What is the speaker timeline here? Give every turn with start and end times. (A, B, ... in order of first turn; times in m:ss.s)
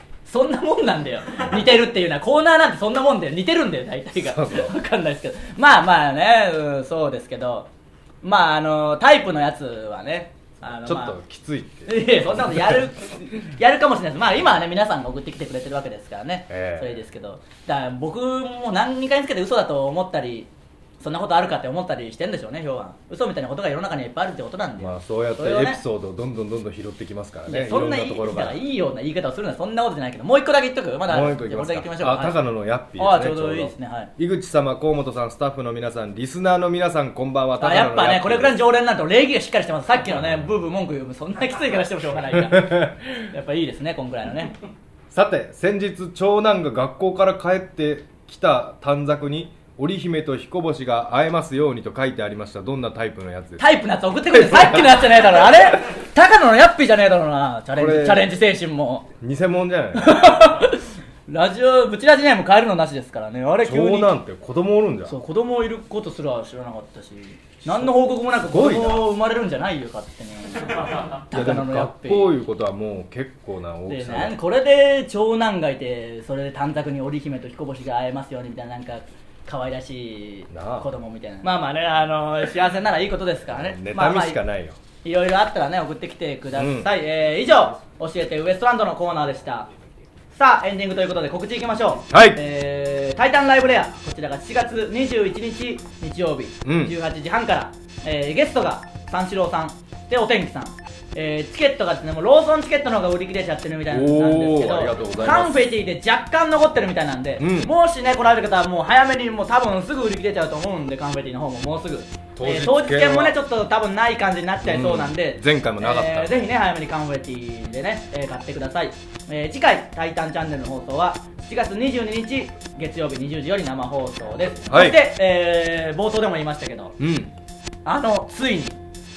0:00.2-0:07.7 A
0:04.2-0:04.7 B
0:08.2-0:11.2 A
0:10.8-0:12.8 B
0:11.8-0:20.5 A
0:16.5-0:17.0 B
0:21.0-0:25.8 A
0:24.8-0:28.6 B
0:27.5-0:32.4 A
0:31.1-0:38.6 B
0:33.0-0:34.1 A
0:37.6-0:44.6 A
0:40.1-0:40.4 B
0:42.5-0:43.0 B
0:45.1-0:53.7 B
0:53.6-0:59.1 A
0:54.3-0:54.9 B
0:57.7-0:58.3 B
0:59.2-1:00.4 B
1:00.0-1:04.1 A
1:03.6-1:05.2 B
1:05.1-1:12.3 A
1:07.7-1:09.1 B
1:11.3-1:14.4 B
1:13.9-1:24.4 A
1:20.5-1:20.9 B
1:23.5-1:24.8 B
1:25.0-1:29.7 A
1:26.6-1:26.9 B
1:30.3-2:07.0 A
1:32.1-1:32.4 B
1:36.6-1:36.9 B
1:43.9-1:45.6 B
1:47.4-1:47.7 B
1:52.4-1:53.4 B
1:54.6-1:56.4 B
2:04.7-2:05.0 B
2:07.0-2:07.3 B
2:07.8-2:08.8 A